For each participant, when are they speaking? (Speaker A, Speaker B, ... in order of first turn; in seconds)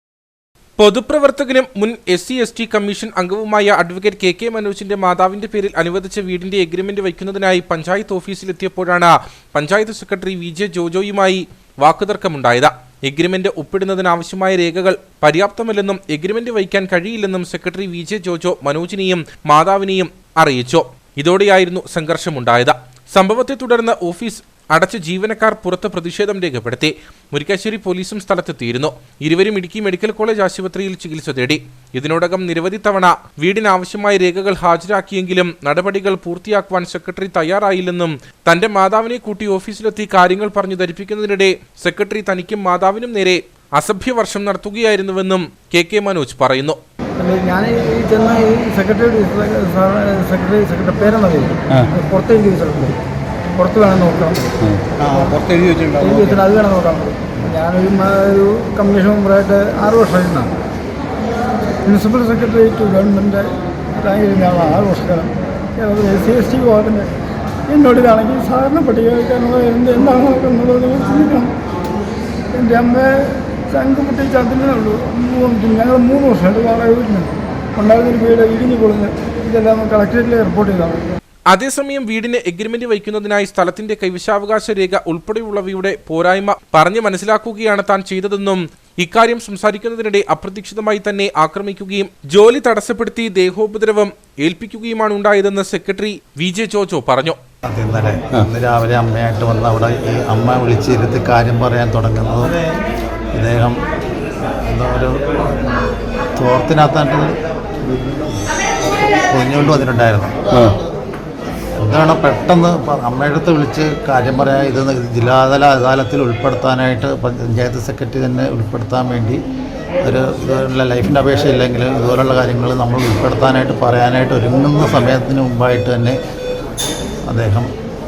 Speaker A: 0.8-46.8, 81.5-97.4
Speaker B: 47.2-53.0, 53.5-54.4, 55.1-55.4, 56.0-60.5, 61.9-67.1, 67.7-71.5, 72.5-81.1
Speaker C: 54.6-56.4, 110.5-110.8
Speaker D: 97.6-102.6, 103.3-103.8, 104.7-105.2, 106.3-107.3, 109.3-110.3, 111.8-119.4, 120.0-126.2, 127.3-127.7